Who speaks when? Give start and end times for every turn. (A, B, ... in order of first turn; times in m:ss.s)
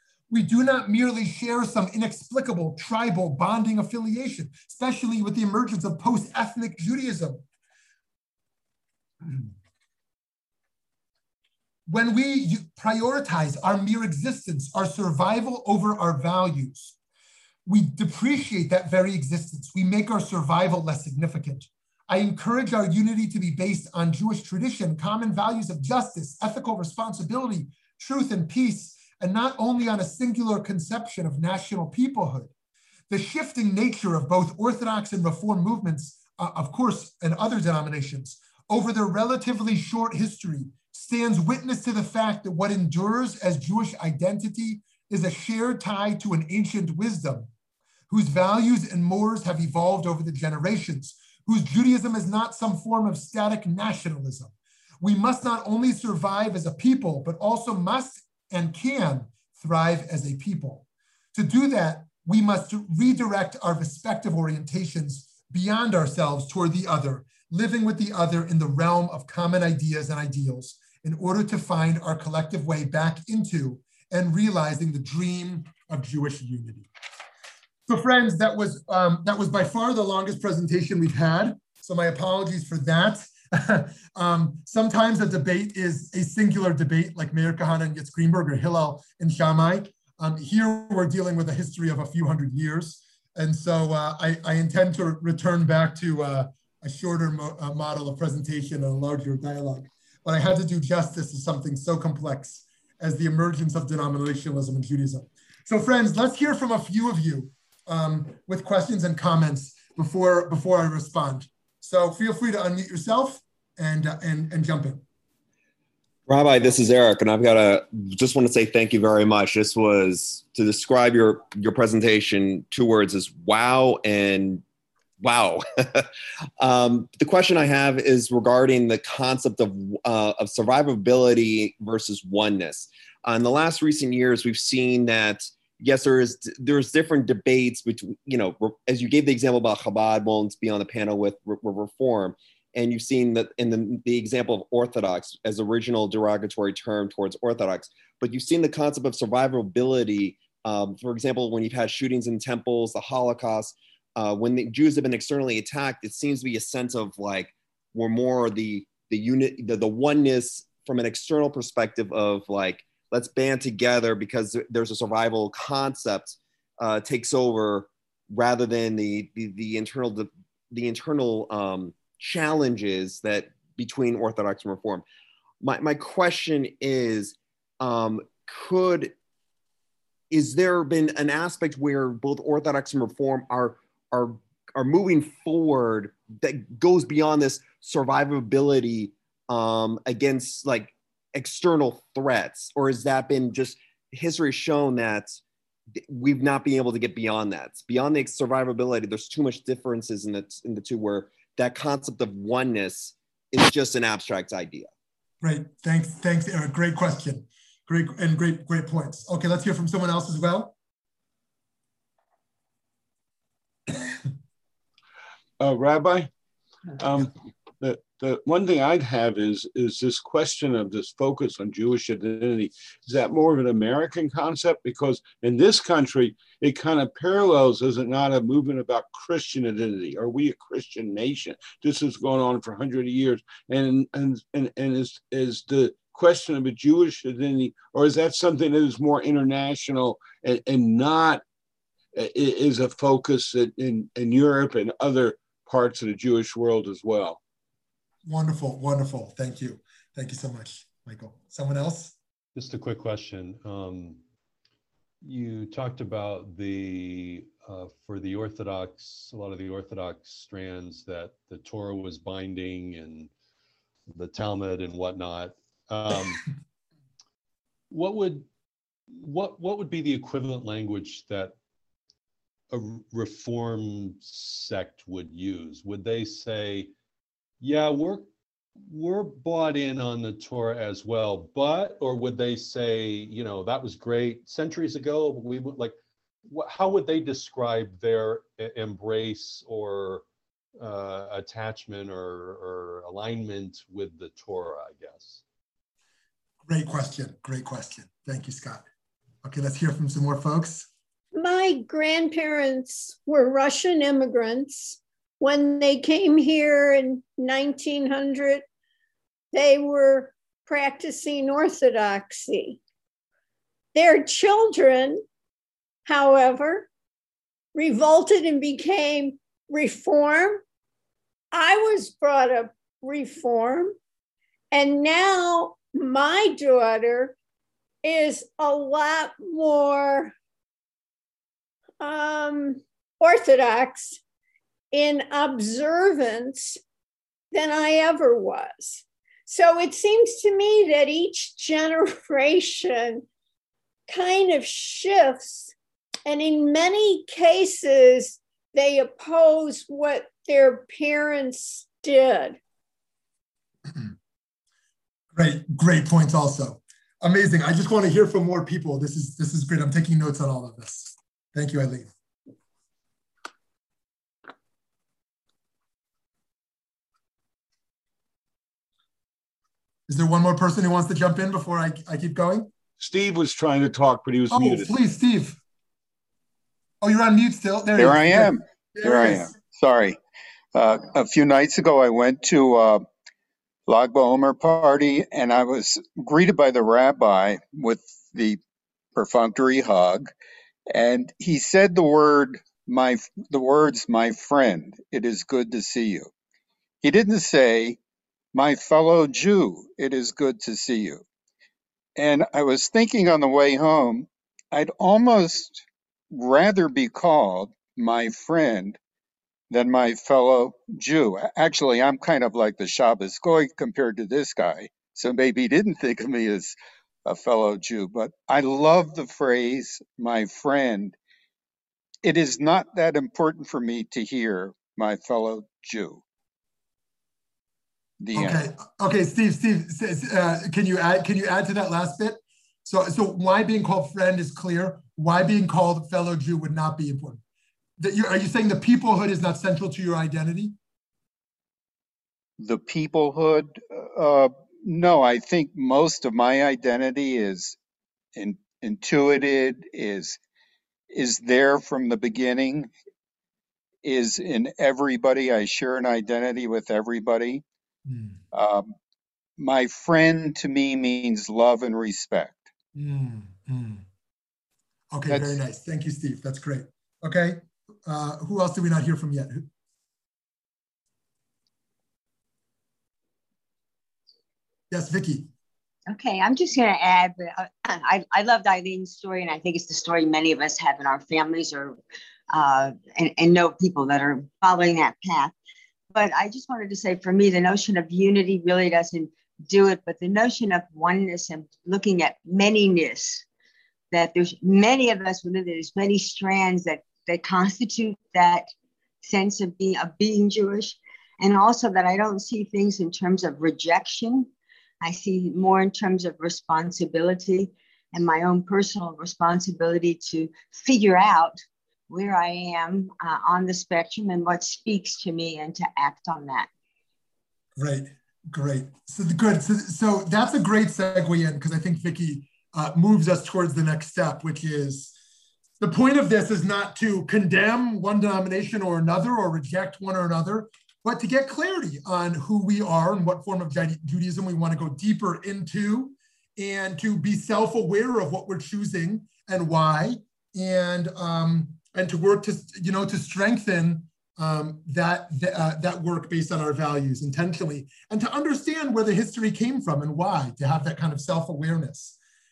0:00.3-0:07.4 A
0:09.2-0:09.5 A
0:11.9-0:16.9 A
0:17.6-0:32.5 A
0:33.1-0:47.5 A
0:48.1-1:16.9 A
1:17.9-1:55.0 A
1:56.3-2:04.6 B
2:05.2-2:06.1 B
2:06.6-2:55.0 B
2:55.6-2:59.1 B
3:00.3-3:15.4 B
3:16.1-3:24.9 B
3:25.4-3:30.7 A
3:35.6-3:36.3 C
3:37.0-4:01.4 C
4:02.1-4:07.4 C
4:08.2-4:12.1 A
4:12.5-4:14.2 D
4:15.2-4:23.3 D
4:24.1-4:26.5 D
4:27.9-4:28.5 D
4:29.1-4:31.6 D
4:32.7-4:36.9 D
4:37.6-4:38.3 D
4:38.9-4:46.0 D
4:46.5-4:50.2 D
4:50.8-4:55.4 D
4:56.6-4:58.8 A
4:59.4-5:00.9 A
5:01.3-5:08.6 E
5:09.5-5:12.8 E
5:13.9-5:15.2 E
5:16.0-5:16.9 E
5:17.7-5:20.6 E
5:21.5-5:24.0 E
5:24.7-5:27.3 E
5:28.0-5:30.3 E
5:32.0-5:34.2 E
5:34.9-5:36.8 E
5:37.5-5:43.2 E
5:44.1-5:45.7 E
5:46.2-5:52.6 E
5:55.3-6:02.1 A
6:10.1-6:12.7 A
6:13.0-6:14.9 C
6:14.5-6:15.6 A
6:17.0-6:19.5 A
6:18.0-6:20.2 F
6:20.7-6:23.0 F
6:23.8-6:28.6 F
6:29.1-6:30.3 F
6:30.9-6:36.3 F
6:37.0-6:38.0 F
6:38.5-6:41.2 F
6:42.2-6:49.0 F
6:49.7-7:01.2 F
7:02.2-7:06.2 F
7:08.2-7:08.6 F
7:08.3-7:17.4 A
7:18.0-7:20.8 A
7:22.6-7:27.8 F
7:28.3-7:30.4 F
7:31.1-7:32.9 F
7:34.0-7:37.6 F
7:38.1-7:38.4 A
7:38.5-7:38.9 F
7:39.6-7:42.7 F
7:42.9-7:44.0 A
7:45.1-7:49.7 A
7:45.3-7:45.6 F
7:54.9-7:55.5 A
7:56.1-8:02.0 G
8:02.5-8:05.5 G
8:06.1-8:13.4 G
8:14.1-8:18.7 G
8:19.2-8:24.5 G
8:25.0-8:31.6 G
8:32.1-8:36.7 G
8:37.8-8:45.1 A
8:45.8-9:12.2 A